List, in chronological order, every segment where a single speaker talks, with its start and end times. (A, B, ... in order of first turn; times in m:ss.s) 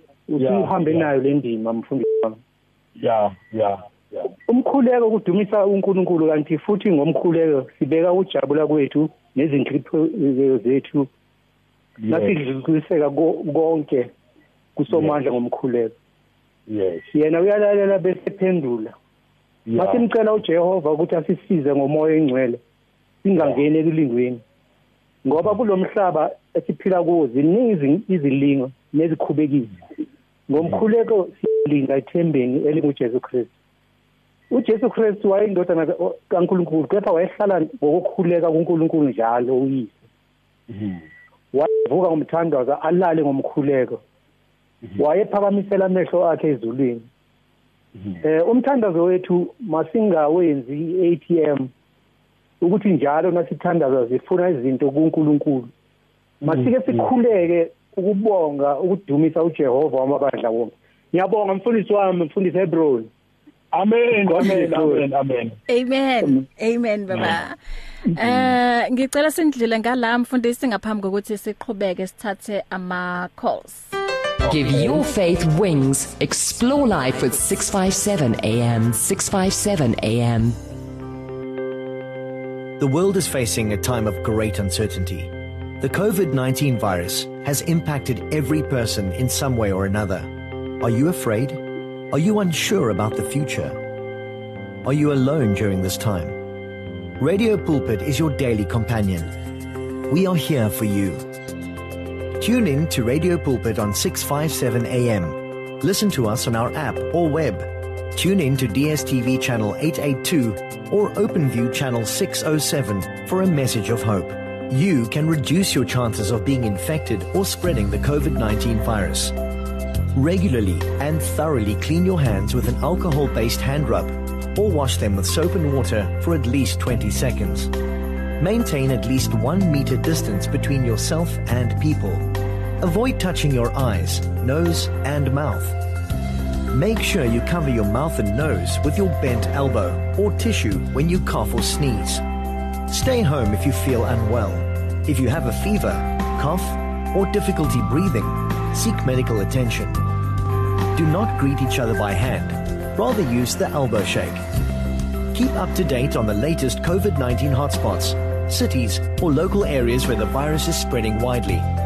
0:00.3-0:02.4 A
0:00.4-0:01.1 B
0:03.0-0:04.3 B
0:04.5-0:11.1 A
0:12.0-0:12.4 B
0:12.0-0:14.1 A
0:14.8-0:15.9 A
0:14.9-0:15.2 B
0:16.7-0:17.1 B
0:17.1-0:18.9 A
0:19.7-0:20.0 B
0:19.7-0:22.6 A
0:23.2-0:24.4 A
0:25.2-0:29.8 A
0:30.5-0:33.5 A
0:34.5-0:40.0 A
0:41.5-0:44.0 A
0:45.0-0:47.1 A
0:48.2-0:51.7 A
0:52.6-0:55.7 A
0:56.4-1:03.1 A
0:56.4-0:57.0 B
1:03.7-1:05.6 B
1:04.2-1:05.1 A
1:05.7-1:07.6 C
1:08.2-1:13.9 C
1:08.2-1:08.4 B
1:14.4-1:15.0 B
1:14.4-1:20.6 D
1:22.8-1:33.8 E
1:34.8-1:36.4 E
1:37.2-1:39.3 E
1:40.1-1:41.3 E
1:42.4-1:59.4 E
2:00.1-2:07.7 E
2:08.4-2:12.3 E
2:12.8-2:15.8 E
2:16.7-2:22.2 E
2:22.9-2:30.0 E
2:30.9-2:34.4 E
2:35.3-2:41.7 E